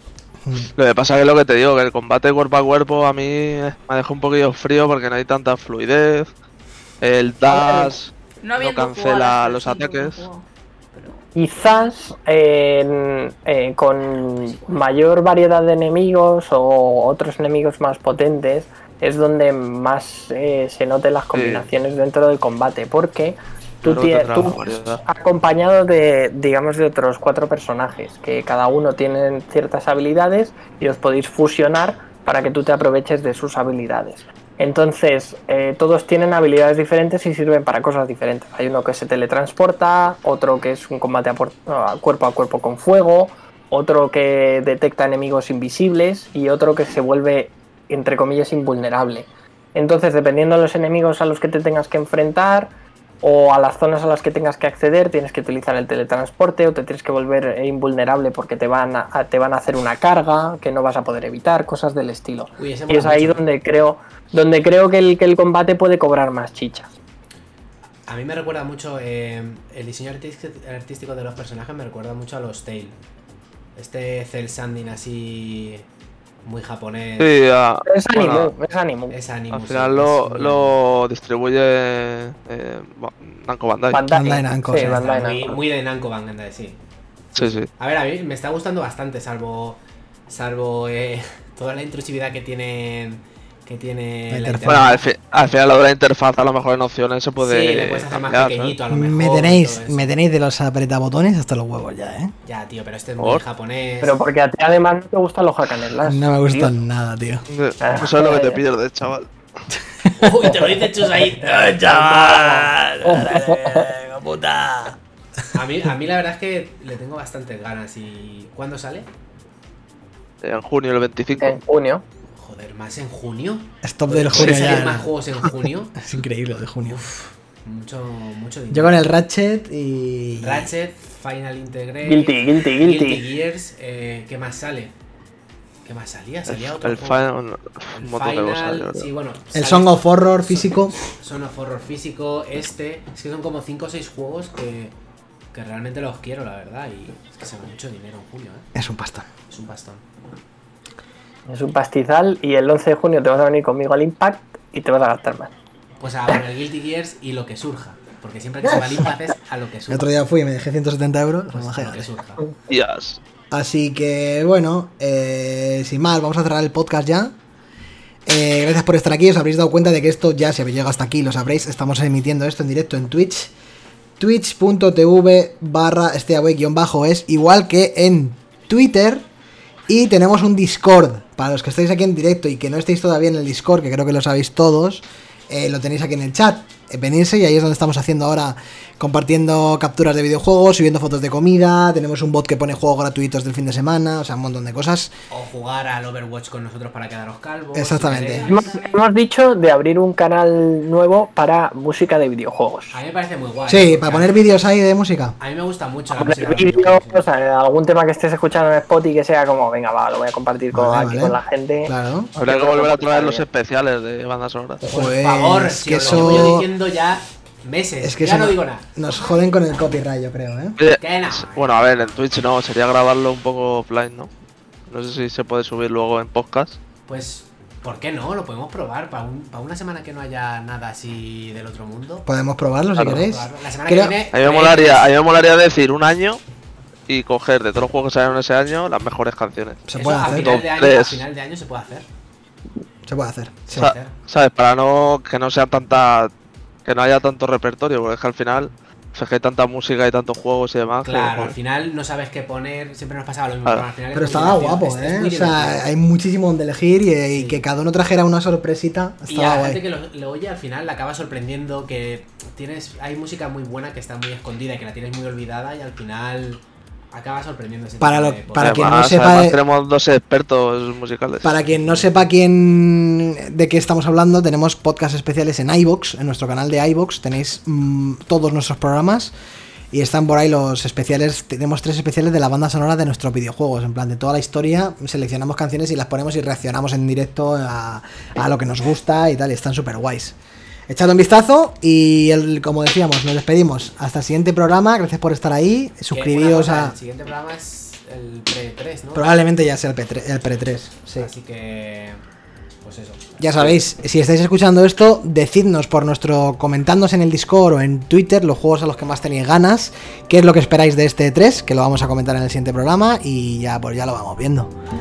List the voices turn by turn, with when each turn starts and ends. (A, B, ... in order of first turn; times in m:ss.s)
0:00.4-0:00.7 A
0:00.8-0:06.3 B
0:07.0-0:10.2 B
0:07.5-0:07.9 C
0:08.4-0:11.8 D
0:11.3-1:06.9 C
0:21.3-0:21.7 B
0:23.8-0:25.0 B
1:02.6-1:03.4 E
1:08.0-1:13.0 E
1:13.8-1:15.8 E
1:16.4-1:17.3 E
1:17.2-1:18.5 B
1:17.8-1:19.2 C
1:19.1-1:20.8 E
1:19.5-1:24.0 B
1:23.9-1:25.6 C
1:24.1-1:25.0 A
1:24.7-1:26.8 E
1:27.3-1:35.0 E
1:27.4-1:27.7 B
1:34.3-1:34.9 A
1:34.6-1:38.8 B
1:37.4-1:40.0 E
1:38.9-1:42.3 A
1:42.4-1:44.2 E
1:44.0-1:46.7 C
1:46.0-1:47.4 A
1:47.5-1:49.3 B
1:47.8-1:48.6 C
1:50.0-1:50.5 A
1:50.2-1:52.7 E
1:51.4-1:55.0 A
1:53.0-1:53.9 C
1:55.5-1:59.1 E
2:00.4-2:01.6 B
2:01.4-2:02.0 C
2:02.3-2:06.0 E
2:03.8-2:05.1 A
2:04.3-2:04.9 B
2:06.0-2:07.0 A
2:06.8-2:09.0 E
2:08.7-2:10.7 A
2:10.4-2:14.9 E
2:12.0-2:13.2 C
2:15.8-2:17.3 E
2:16.5-2:19.1 B
2:17.9-2:24.9 E
2:19.5-2:21.0 A
2:25.5-2:28.7 E
2:28.7-2:29.3 A
2:29.5-2:30.0 E
2:31.5-2:35.5 C
2:36.0-2:40.1 E
2:38.6-2:39.1 A
2:39.9-2:42.1 A
2:41.5-2:42.5 E
2:42.7-2:43.2 B
2:43.5-2:47.4 A
2:48.2-2:53.5 A
2:54.2-2:59.2 A
2:59.9-3:15.1 A
3:15.3-3:18.5 E
3:17.7-3:18.5 A
3:18.4-3:23.0 C
3:18.5-3:19.0 D
3:22.9-3:24.3 E
3:23.7-3:25.4 A
3:25.4-3:27.3 E
3:26.1-3:33.4 C
3:30.7-3:32.3 A
3:32.3-3:34.8 B
3:34.8-3:36.7 A
3:34.8-3:38.9 E
3:36.0-3:36.4 B
3:38.0-3:40.8 A
3:40.8-3:44.3 B
3:41.0-3:42.3 E
3:44.9-3:46.8 B
3:47.1-3:52.2 E
3:52.2-3:54.2 A
3:53.0-3:55.1 E
3:54.3-3:56.4 B
3:57.1-4:01.2 B
3:59.9-4:00.5 A
3:59.9-4:02.1 E
4:03.1-4:03.9 A
4:03.7-4:04.1 E
4:03.8-4:06.3 B
4:06.8-4:11.5 B
4:11.0-4:15.8 E
4:14.1-4:19.8 A
4:17.3-4:17.6 E
4:19.3-4:28.9 E
4:28.0-4:29.6 A
4:28.6-4:31.5 B
4:31.4-4:39.3 A
4:31.7-4:32.1 E
4:39.9-4:50.4 A
4:50.9-4:56.9 A
4:56.1-4:59.3 E
4:59.1-5:01.3 A
5:01.2-5:02.2 E
5:02.8-5:03.8 E
5:03.4-5:14.7 A